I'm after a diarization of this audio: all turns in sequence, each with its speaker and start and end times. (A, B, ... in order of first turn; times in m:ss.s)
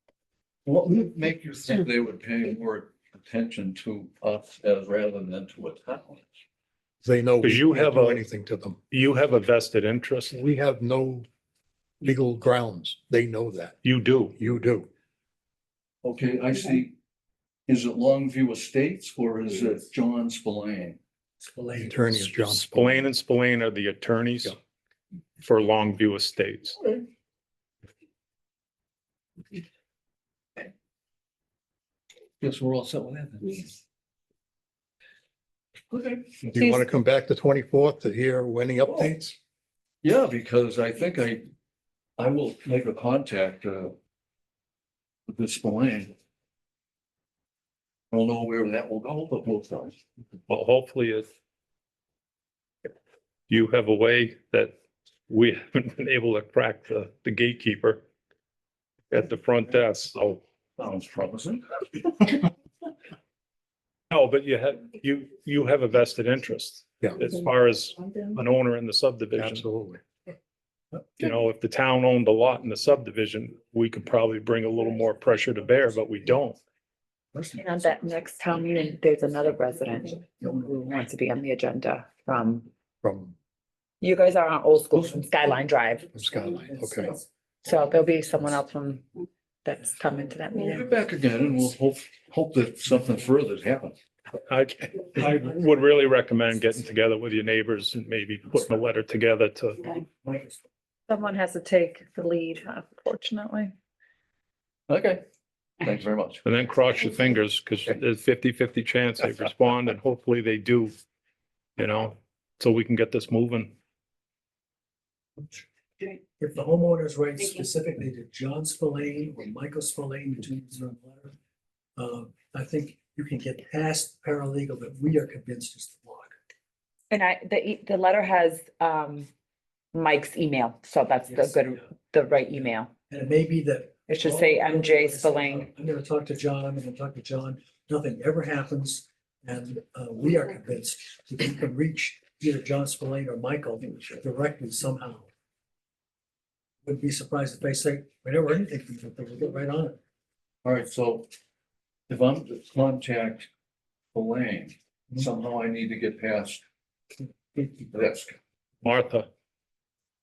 0:00.7-0:06.3 A
0:07.0-0:08.8 B
0:07.4-0:08.2 C
0:08.9-0:10.3 C
0:10.3-0:11.2 B
0:12.0-0:13.8 B
0:13.8-0:14.3 C
0:14.4-0:14.9 B
0:16.0-0:16.9 A
0:17.7-0:21.0 A
0:21.4-0:22.0 D
0:21.8-0:23.1 B
0:22.2-0:24.6 C
0:25.4-0:26.8 C
0:32.4-0:33.7 A
0:35.9-0:36.4 A
0:36.4-0:39.4 B
0:36.5-0:36.8 E
0:40.0-0:41.5 A
0:42.2-0:43.9 A
0:45.3-0:46.1 A
0:48.1-0:50.0 A
0:50.5-0:51.3 C
0:53.5-0:54.7 C
0:55.3-0:58.0 C
0:59.1-1:00.4 C
1:00.8-1:02.5 A
1:04.1-1:09.7 C
1:09.4-1:10.0 B
1:11.2-1:16.6 C
1:17.6-1:22.7 E
1:23.0-1:23.3 B
1:24.0-1:26.1 E
1:26.1-1:27.1 B
1:26.5-1:27.2 D
1:27.6-1:29.0 E
1:29.6-1:30.8 E
1:30.5-1:33.9 A
1:34.4-1:39.8 C
1:41.1-1:43.7 E
1:44.9-1:45.2 A
1:45.8-1:46.4 A
1:46.4-1:50.9 C
1:51.8-1:53.7 C
1:56.4-2:01.3 D
2:02.0-2:06.3 D
2:07.1-2:09.3 E
2:09.9-2:12.9 E
2:11.3-2:11.8 D
2:13.1-2:25.3 D
2:14.1-2:15.7 E
2:26.8-2:30.0 D
2:30.6-2:31.3 A
2:32.1-2:33.5 A
2:34.1-2:36.6 A
2:37.6-2:38.3 A
2:38.8-2:39.3 C